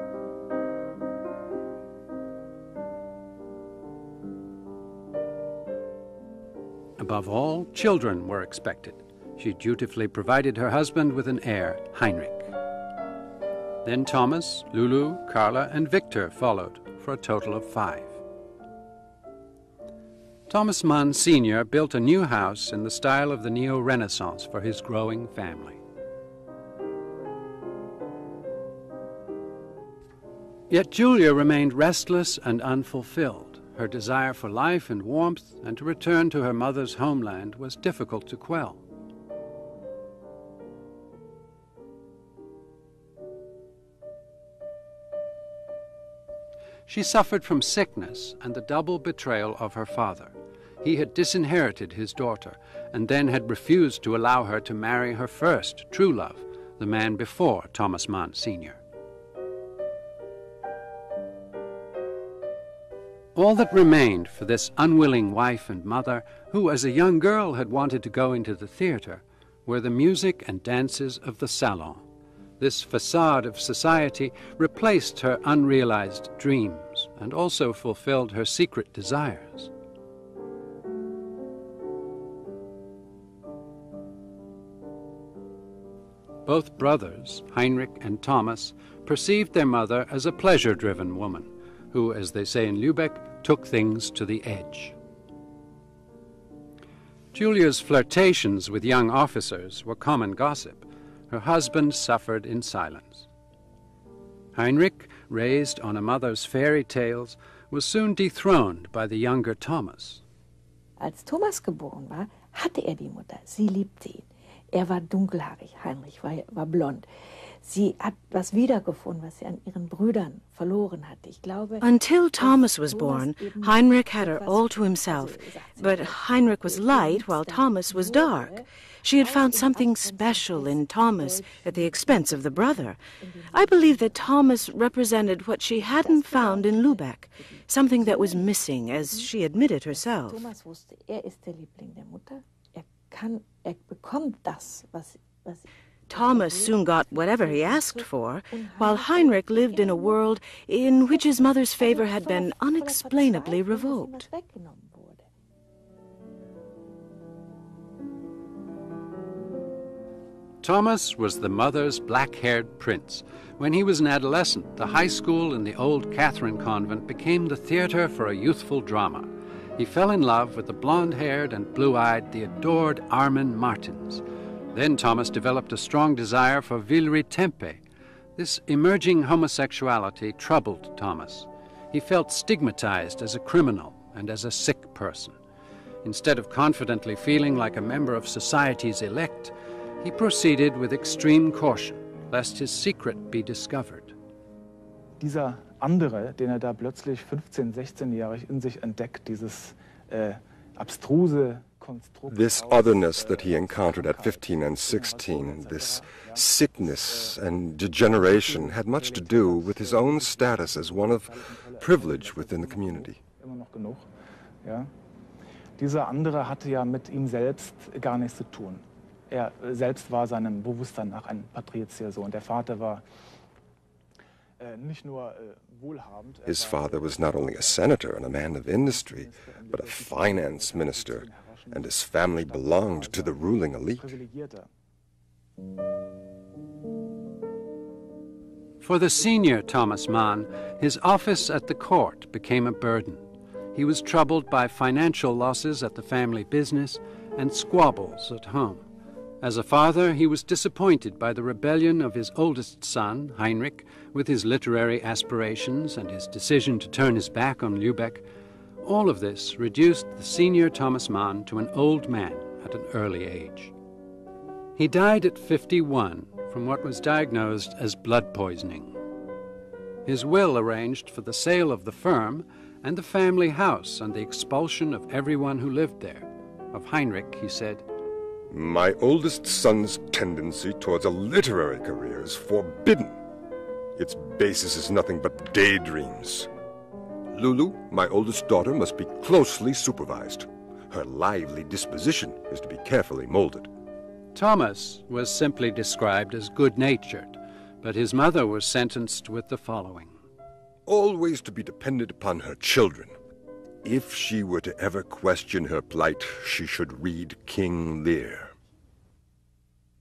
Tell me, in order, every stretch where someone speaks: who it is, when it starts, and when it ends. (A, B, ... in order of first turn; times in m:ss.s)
0:07.0-0:12.5 A
0:13.8-0:18.2 A
0:20.5-0:25.8 A
0:30.7-0:38.8 A
0:46.9-0:58.8 A
1:03.4-1:12.0 A
1:12.6-1:19.7 A
1:26.4-1:35.0 A
1:37.3-1:43.3 A
1:44.6-1:50.2 A
1:51.0-1:57.1 B
1:57.6-2:14.5 B
2:01.8-2:13.0 C
2:13.5-2:20.5 C
2:15.7-2:19.3 B
2:19.9-2:30.2 B
2:26.1-2:34.3 C
2:31.1-2:35.2 B
2:40.6-2:57.8 A
2:58.4-3:05.4 A
3:06.0-3:14.1 A
3:15.2-3:27.4 D
3:22.3-3:33.2 E
3:28.1-3:34.1 D
3:34.6-3:34.9 D
3:35.8-3:43.0 D
3:44.6-3:48.0 D
3:46.5-3:54.1 E
3:48.8-3:54.7 D
3:58.8-4:03.2 A
4:03.7-4:08.8 A
4:09.4-4:18.2 A
4:18.8-4:23.7 A
4:24.8-4:29.0 A
4:30.1-4:37.8 A
4:38.5-4:43.2 E
4:44.0-4:46.5 E
4:47.3-4:53.7 E
4:54.4-5:00.2 A
5:00.9-5:03.2 E
5:03.8-5:08.6 E